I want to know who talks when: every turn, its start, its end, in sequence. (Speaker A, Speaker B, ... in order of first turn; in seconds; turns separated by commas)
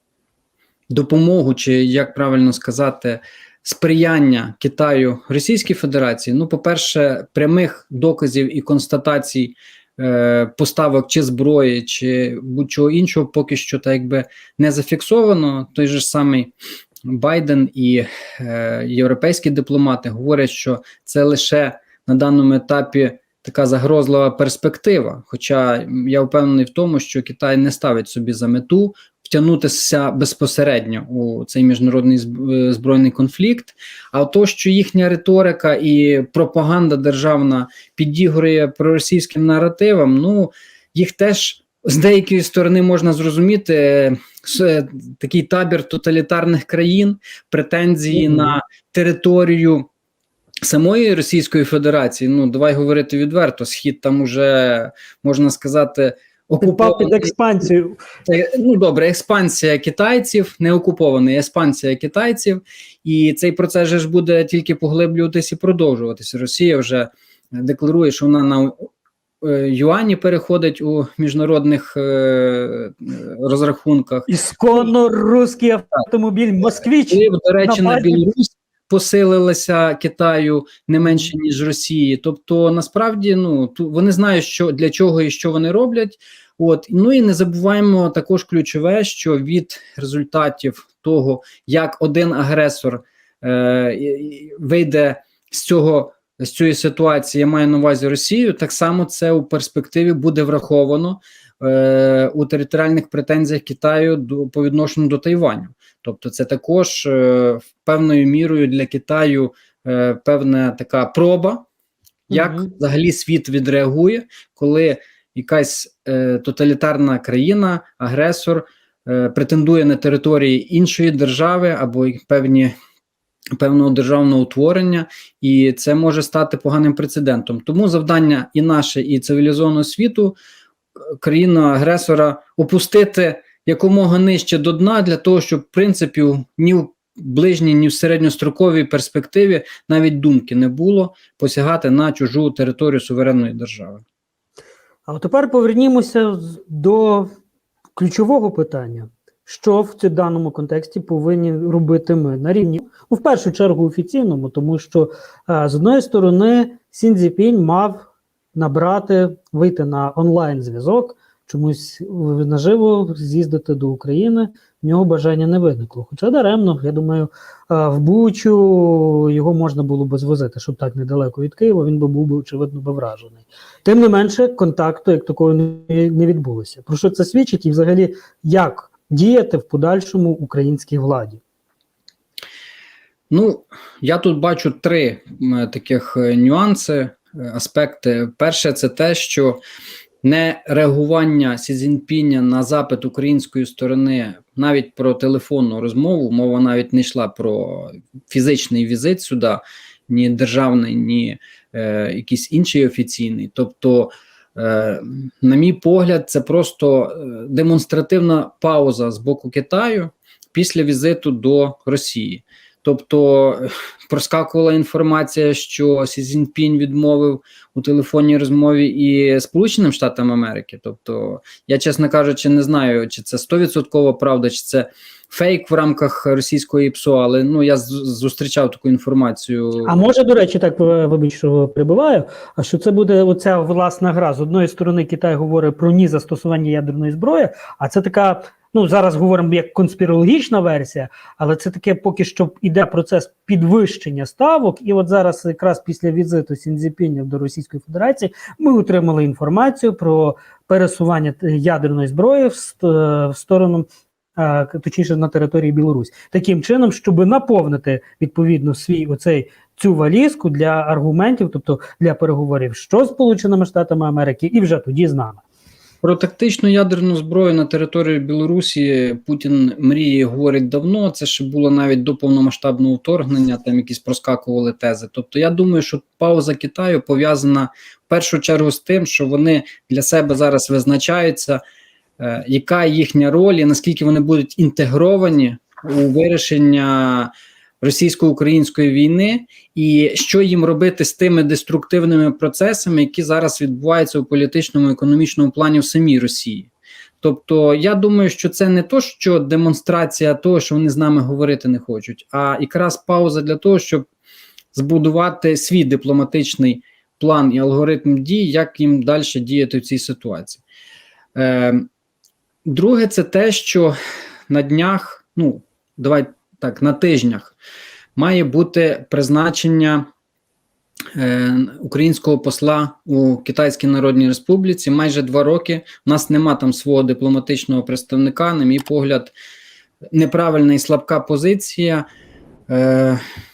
Speaker A: 0.9-16.5, Speaker A: 17.1-49.9, Speaker B: 48.1-48.5, Speaker A: 50.6-57.3, Speaker B: 56.6-58.0, Speaker A: 58.3-68.9, Speaker A: 69.4-74.9, Speaker B: 74.3-78.3, Speaker A: 77.1-111.7, Speaker A: 112.3-122.7, Speaker B: 112.3-112.7, Speaker A: 123.6-130.4, Speaker A: 131.2-144.0, Speaker B: 145.1-147.3, Speaker B: 148.0-181.4, Speaker A: 183.3-189.6, Speaker A: 190.2-230.0, Speaker B: 229.8-265.4, Speaker A: 266.0-281.6, Speaker A: 282.2-296.7, Speaker A: 297.2-304.1, Speaker A: 304.7-310.6, Speaker A: 311.4-311.9, Speaker A: 312.6-313.9, Speaker A: 314.5-317.6, Speaker A: 318.2-320.1, Speaker A: 321.1-329.3, Speaker A: 330.1-332.1, Speaker A: 332.7-333.2